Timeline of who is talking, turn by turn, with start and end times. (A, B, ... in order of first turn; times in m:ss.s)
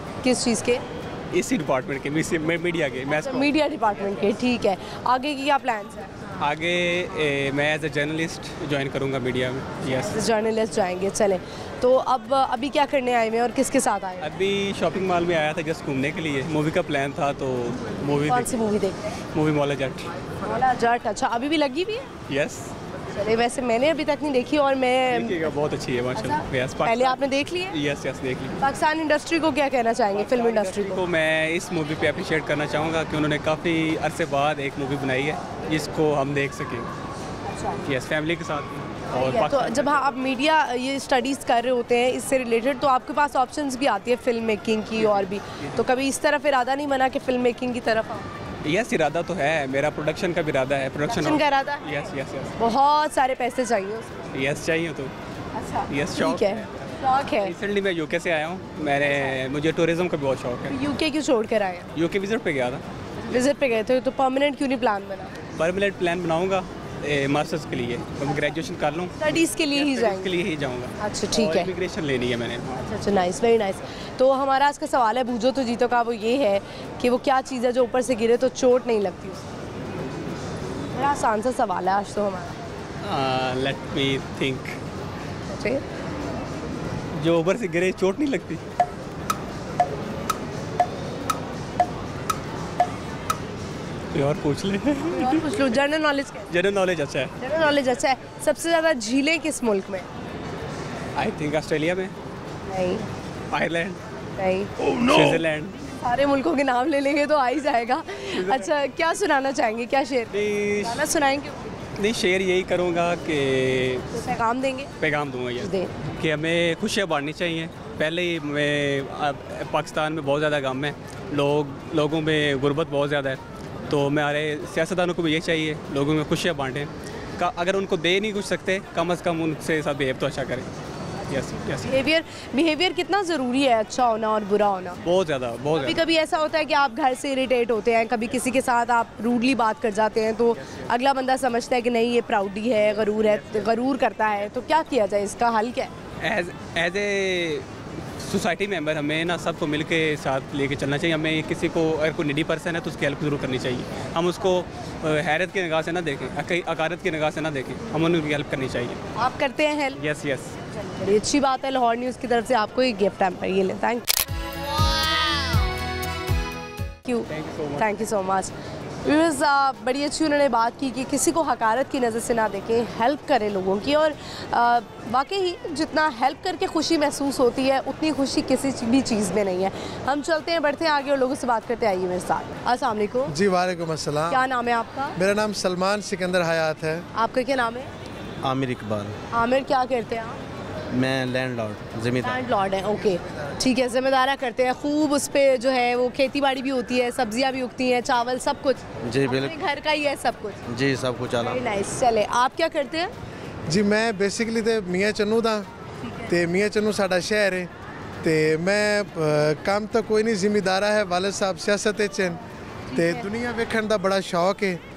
0:00.2-0:00.8 A
0:01.3-0:03.5 B
0:03.1-0:06.4 A
0:06.4-0:10.2 B
0:09.9-0:14.3 A
0:14.2-0:18.5 B
0:18.3-0:19.2 A
0:19.3-0:20.1 B
0:20.4-0:22.1 A
0:22.3-0:22.7 B
0:23.1-0:25.5 A
0:25.1-0:28.6 B
0:26.1-0:27.8 A
0:28.6-0:31.0 A
0:30.2-0:36.9 B
0:37.4-0:37.8 A
0:37.8-0:40.1 B
0:39.1-0:48.3 A
0:45.0-0:45.8 B
0:48.6-0:52.6 B
0:51.1-0:51.9 A
0:52.6-0:54.3 A
0:54.3-0:55.1 B
0:55.5-0:57.5 A
0:55.9-1:00.8 B
0:59.0-0:59.4 A
1:00.7-1:01.9 A
1:01.9-1:02.8 B
1:03.2-1:05.4 A
1:05.6-1:12.9 B
1:09.2-1:10.3 A
1:11.0-1:11.7 A
1:12.8-1:19.4 A
1:20.9-1:22.6 A
1:23.0-1:24.8 B
1:25.5-1:25.8 A
1:27.2-1:28.6 B
1:34.1-1:35.6 B
1:35.0-1:36.5 A
1:36.5-1:37.3 B
1:37.4-1:40.1 A
1:41.2-1:42.1 B
1:42.7-1:43.0 A
1:43.5-1:44.0 B
1:44.4-1:44.7 A
1:44.8-1:45.8 B
1:45.9-1:51.7 A
1:48.3-1:48.7 B
1:50.3-1:51.0 B
1:52.0-1:54.2 B
1:54.1-1:54.9 A
1:55.0-2:10.7 B
1:55.6-1:55.9 A
2:11.2-2:11.9 B
2:11.8-2:15.0 A
2:15.0-2:16.0 B
2:15.7-2:25.9 A
2:22.9-2:23.7 B
2:26.2-2:27.6 B
2:28.2-2:39.1 B
2:39.1-2:40.0 A
2:40.0-2:40.5 B
2:40.7-2:44.0 A
2:47.0-3:03.3 A
2:47.3-2:47.9 B
3:03.3-3:04.4 C
3:04.3-3:05.2 A
3:05.2-3:07.1 C
3:07.1-3:07.9 A
3:08.4-3:09.1 D
3:09.3-3:10.4 A
3:10.9-3:12.4 D
3:12.2-3:20.6 A
3:19.0-3:19.5 D
3:20.7-3:21.6 D
3:21.4-3:23.1 A
3:23.7-3:25.7 C
3:26.0-3:26.3 A
3:26.2-3:27.7 C
3:28.2-3:32.4 C
3:32.9-3:33.3 A
3:32.9-3:34.8 C